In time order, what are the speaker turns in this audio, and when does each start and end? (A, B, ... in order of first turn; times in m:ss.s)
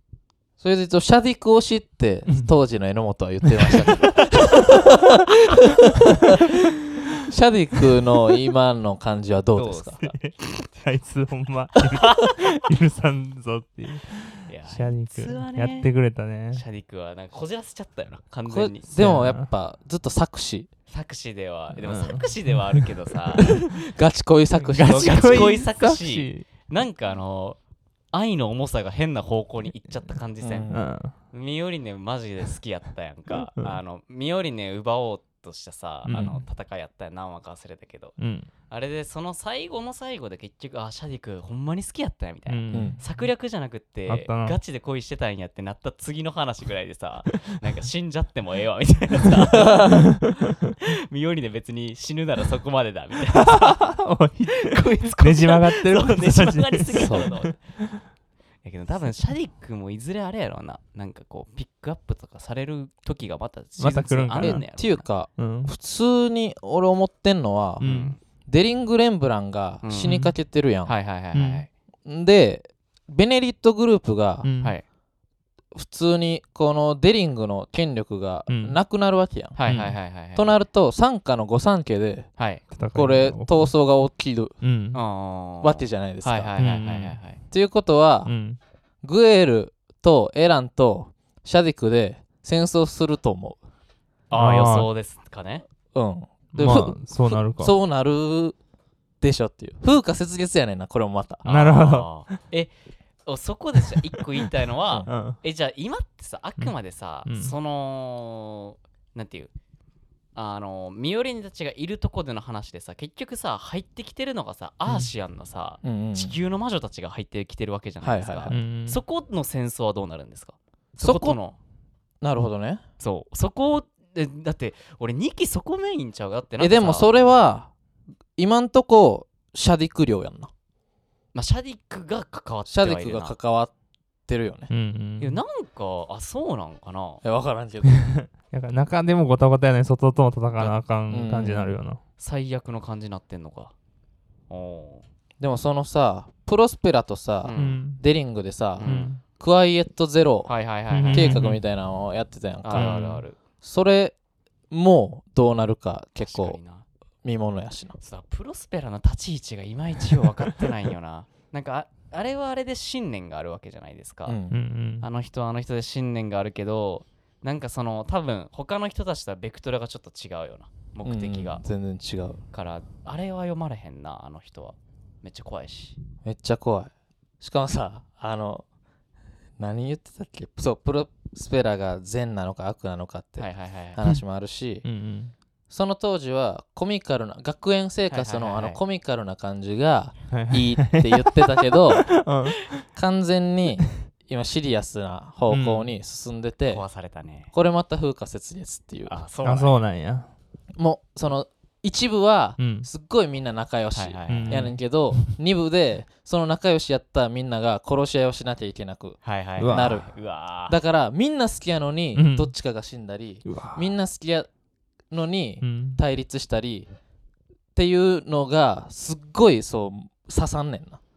0:00.6-0:06.4 A
0:03.4-0:04.1 B
0:07.2-0:10.0 A
0:09.6-0:10.7 C
0:10.0-0:16.6 B
0:11.9-0:12.4 C
0:14.5-0:15.9 C
0:16.5-0:18.9 C
0:18.5-0:20.7 A
0:18.9-0:19.5 B
0:20.9-0:23.6 C
0:21.8-0:22.9 B
0:23.4-0:25.6 A
0:24.7-0:26.5 B
0:24.8-0:27.6 C
0:28.1-0:30.7 C
0:30.4-0:30.8 A
0:30.7-0:31.1 B
0:31.3-0:38.2 C
0:36.1-0:36.4 B
0:38.2-0:38.5 B
0:38.7-0:50.1 C
0:42.5-0:43.0 B
0:42.7-0:43.0 A
0:44.1-0:44.6 B
0:49.6-0:50.0 A
0:49.9-0:50.7 B
0:50.8-0:53.8 C
0:53.3-0:58.0 B
0:54.5-0:57.6 C
0:57.0-0:57.3 A
0:58.6-1:05.0 C
1:03.8-1:04.6 B
1:04.4-1:07.8 A
1:05.4-1:05.7 B
1:07.8-1:08.2 B
1:07.8-1:08.2 C
1:08.5-1:10.9 A
1:09.8-1:10.2 C
1:10.0-1:10.3 B
1:10.9-1:11.7 C
1:11.3-1:11.7 B
1:12.1-1:14.5 A
1:14.4-1:14.8 B
1:15.7-1:19.6 A
1:18.5-1:18.8 B
1:19.6-1:20.6 C
1:19.7-1:20.0 B
1:20.3-1:22.3 A
1:22.4-1:22.6 C
1:22.7-1:23.7 B
1:22.9-1:24.6 A
1:24.6-1:25.0 B
1:24.9-1:27.4 C
1:25.6-1:26.5 A
1:26.6-1:27.2 B
1:27.5-1:28.3 A
1:28.3-1:28.6 B
1:29.0-1:33.6 A
1:34.3-1:35.6 C
1:34.3-1:34.9 B
1:35.9-1:38.6 A
1:36.5-1:37.8 B
1:39.2-1:41.4 A
1:41.4-1:42.7 C
1:41.5-1:42.4 B
1:43.2-1:49.5 C
1:45.1-1:45.4 B
1:47.2-1:47.5 B
1:50.4-2:01.6 C
1:55.8-1:56.4 A
1:58.0-1:58.6 A
1:58.5-1:59.0 B
2:01.0-2:01.4 A
2:02.2-2:02.8 A
2:03.0-2:07.1 C
2:06.6-2:07.7 A
2:08.4-2:10.5 A
2:11.3-2:13.3 C
2:12.7-2:13.7 A
2:14.3-2:14.7 A
2:14.7-2:15.4 B
2:15.2-2:17.2 C
2:17.2-2:18.1 A
2:17.9-2:22.0 B
2:21.1-2:21.8 A
2:22.2-2:23.7 C
2:24.5-2:25.0 C
2:25.4-2:30.5 A
2:27.4-2:27.8 C
2:27.6-2:28.0 B
2:28.8-2:29.1 C
2:28.8-2:29.2 B
2:30.5-2:31.5 C
2:30.9-2:31.6 B
2:31.1-2:33.0 A
2:32.6-2:33.4 C
2:32.8-2:33.2 B
2:33.6-2:34.2 A
2:34.7-2:36.6 A
2:36.2-2:36.9 C
2:37.2-2:38.0 A
2:38.0-2:44.4 C
2:44.3-2:44.6 A
2:44.5-2:45.1 B
2:45.0-2:51.6 C
2:51.0-2:52.4 A
2:52.5-2:56.0 C
2:56.2-2:58.6 A
2:59.6-3:04.8 A
3:03.4-3:04.0 C
3:04.8-3:05.3 B
3:05.7-3:12.1 A
3:08.1-3:08.8 C
3:10.3-3:12.8 B
3:12.9-3:16.8 A
3:15.5-3:15.9 B
3:16.7-3:17.5 C
3:17.5-3:19.1 A
3:19.1-3:19.8 C
3:19.4-3:20.3 B
3:20.8-3:30.1 A
3:22.6-3:22.9 B
3:23.9-3:24.7 C
3:24.3-3:25.3 B
3:29.2-3:30.8 C
3:29.6-3:30.0 B
3:30.7-3:34.5 A
3:32.2-3:32.5 B
3:33.5-3:33.9 B
3:35.1-3:36.9 A
3:35.6-3:36.0 B
3:37.8-3:41.0 A